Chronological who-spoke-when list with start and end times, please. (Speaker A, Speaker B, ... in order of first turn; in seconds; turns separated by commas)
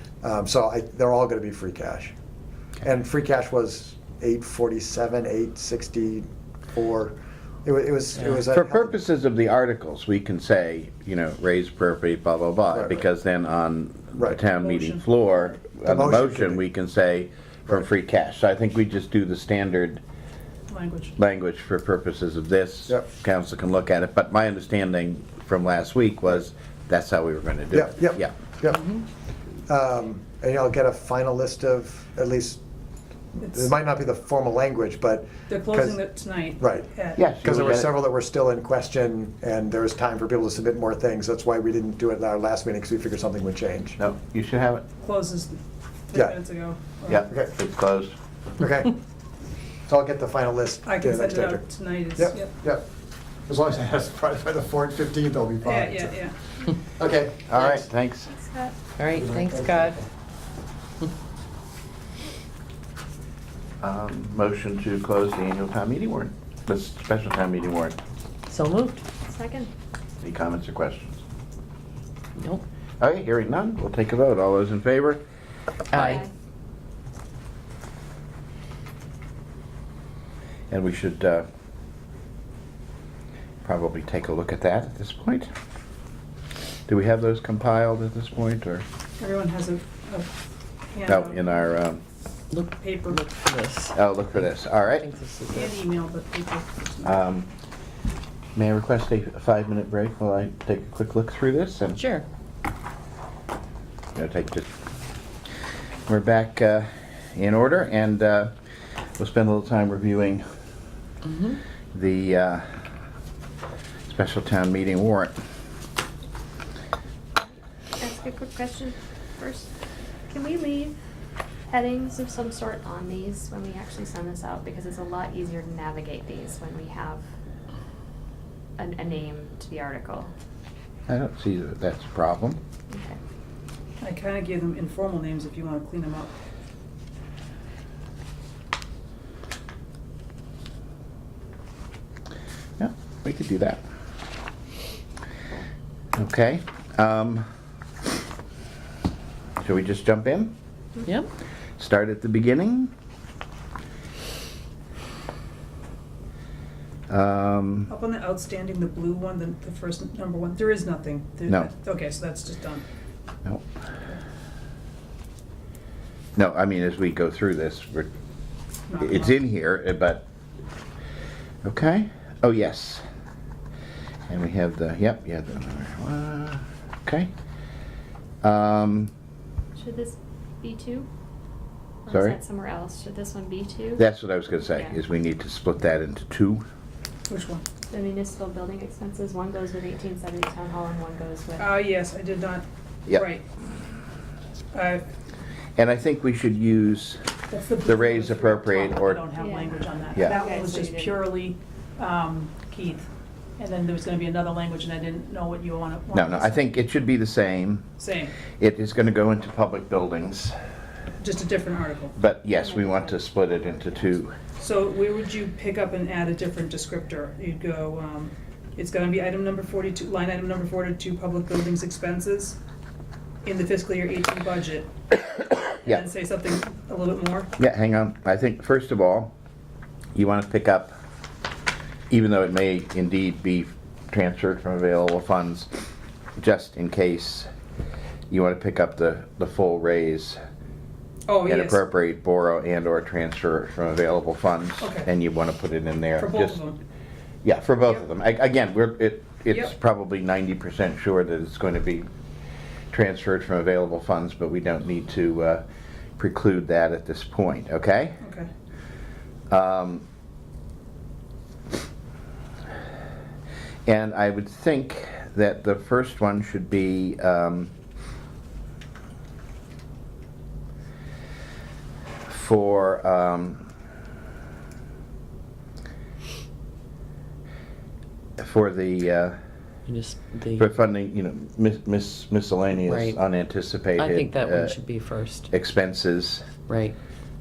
Speaker A: 0.2-2.1, Speaker A: 2.8-8.9, Speaker B: 8.4-20.0, Speaker A: 12.7-13.0, Speaker C: 14.6-15.0, Speaker A: 15.8-16.6, Speaker C: 20.7-21.1, Speaker B: 21.2-28.3, Speaker A: 27.7-28.9, Speaker A: 29.7-32.6, Speaker A: 33.4-36.0, Speaker C: 33.4-33.7, Speaker C: 35.5-37.2, Speaker A: 36.6-36.9, Speaker B: 37.1-37.9, Speaker A: 37.4-44.0, Speaker B: 44.0-44.8, Speaker C: 45.0-45.6, Speaker C: 46.1-47.2, Speaker B: 47.1-48.1, Speaker A: 47.2-47.5, Speaker A: 48.6-48.9, Speaker A: 49.9-51.6, Speaker C: 50.9-52.5, Speaker A: 52.1-52.9, Speaker A: 53.5-56.3, Speaker C: 55.6-56.3, Speaker A: 56.9-57.9, Speaker B: 57.5-58.3, Speaker D: 58.3-58.8, Speaker E: 59.0-60.0, Speaker A: 59.1-60.0, Speaker B: 63.8-68.0, Speaker E: 68.5-69.0, Speaker D: 69.2-69.7, Speaker B: 70.2-71.2, Speaker E: 72.4-72.6, Speaker B: 73.0-75.2, Speaker E: 75.9-76.2, Speaker D: 76.0-76.3, Speaker B: 80.7-81.5, Speaker B: 83.6-85.5, Speaker B: 86.9-88.8, Speaker C: 89.2-90.4, Speaker C: 90.9-91.5, Speaker B: 91.1-92.0, Speaker E: 92.5-95.8, Speaker C: 92.8-93.2, Speaker B: 93.9-95.1, Speaker C: 95.5-97.1, Speaker B: 97.0-97.5, Speaker B: 98.5-102.0, Speaker E: 101.9-102.2, Speaker B: 104.1-104.7, Speaker B: 106.1-108.5, Speaker B: 109.2-110.4, Speaker E: 111.2-111.6, Speaker B: 111.9-112.6, Speaker B: 114.1-115.3, Speaker D: 118.0-119.7, Speaker D: 120.3-120.9, Speaker D: 121.7-127.2, Speaker D: 128.8-130.3, Speaker B: 131.1-132.6, Speaker D: 132.9-133.2, Speaker C: 134.0-136.3, Speaker B: 142.8-143.8, Speaker B: 146.1-147.4, Speaker B: 149.6-150.5, Speaker B: 151.8-152.9, Speaker B: 157.1-157.9, Speaker C: 157.9-162.8, Speaker B: 166.3-168.1, Speaker C: 168.9-169.4, Speaker B: 169.0-170.2, Speaker B: 171.6-173.0, Speaker B: 174.3-177.3, Speaker B: 178.4-179.1, Speaker D: 179.8-181.1, Speaker D: 182.1-184.0, Speaker B: 182.1-182.4, Speaker B: 184.0-186.6, Speaker C: 187.3-187.6, Speaker D: 187.9-191.8, Speaker C: 191.6-193.4, Speaker C: 194.7-195.0, Speaker B: 195.8-197.2, Speaker C: 197.5-203.1, Speaker B: 197.8-199.2, Speaker D: 199.3-201.2, Speaker B: 200.1-200.4, Speaker C: 203.6-206.7, Speaker B: 206.1-207.9, Speaker C: 208.0-208.3, Speaker B: 208.6-210.5, Speaker C: 211.2-212.1, Speaker B: 212.1-214.3, Speaker D: 212.5-214.2, Speaker C: 214.6-222.6, Speaker C: 223.4-224.9, Speaker C: 225.8-227.5, Speaker B: 227.6-229.3, Speaker B: 230.1-230.9, Speaker B: 232.1-235.7, Speaker B: 236.4-237.5, Speaker B: 238.3-240.4, Speaker C: 241.3-241.8, Speaker B: 241.4-246.6, Speaker C: 244.8-245.1, Speaker C: 246.2-246.8, Speaker B: 247.4-252.1, Speaker B: 252.9-255.6, Speaker B: 256.2-258.2, Speaker C: 258.2-258.5, Speaker B: 259.5-260.0, Speaker B: 263.9-267.7, Speaker B: 272.2-273.7, Speaker B: 278.4-279.4, Speaker E: 279.9-280.7, Speaker B: 280.6-284.7, Speaker E: 282.8-283.2, Speaker E: 283.9-285.5, Speaker B: 285.5-286.4, Speaker E: 286.7-286.9